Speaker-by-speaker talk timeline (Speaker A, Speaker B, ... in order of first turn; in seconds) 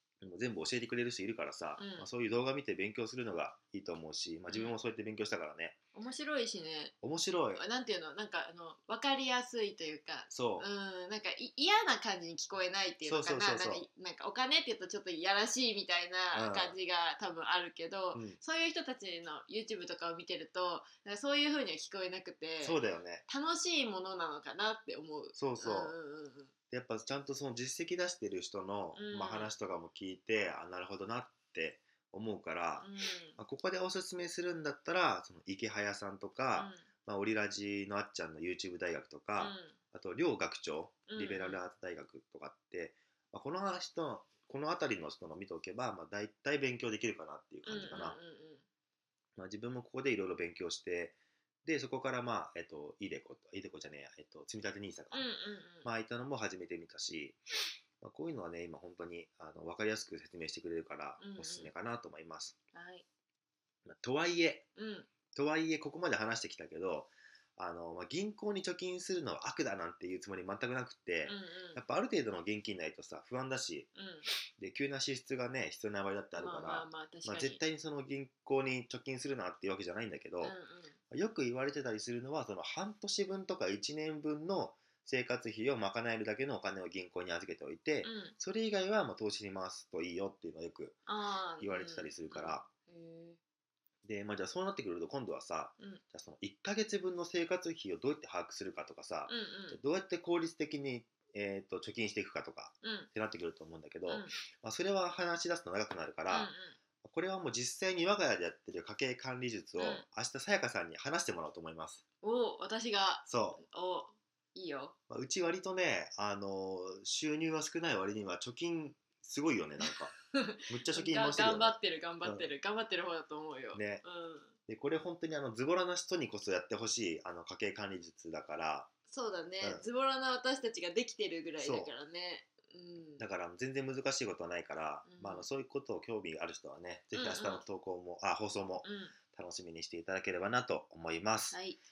Speaker A: 0.2-5.8, 7.0-7.6, 10.3-10.7, 13.0-13.8, 16.3-16.8, 18.1-18.4, 22.6-23.2, 25.3-25.9, 26.7-48.2, 49.4-55.2, 55.8-57.4, 58.0-62.5, 63.9-64.7, 65.3-73.9, 74.6-80.5, 81.1-91.0, 91.6-92.6, 94.0-106.5, 107.0-112.0, 113.2-113.6, 115.1-120.1, 120.7-122.5, 123.7-124.0, 124.7-128.9, 131.6-131.9, 133.2-141.6
Speaker B: 1.8-2.1, 4.5-4.7, 5.9-6.9, 7.5-26.5, 28.9-29.5, 32.8-33.4, 36.5-36.8, 39.4-39.8, 41.1-41.6, 47.6-48.6, 55.1-55.9, 61.2-61.7, 62.7-63.0, 64.8-65.1, 71.2-71.8, 73.9-74.3, 76.4-77.6, 80.4-81.0, 88.0-88.3, 91.1-93.4, 99.3-99.8, 102.8-103.1, 104.1-104.3, 106.3-106.8, 109.8-110.0, 112.2-114.9, 119.8-124.5, 129.1-133.2, 135.1-135.5, 137.1-137.6, 138.8-139.2, 141.5-141.8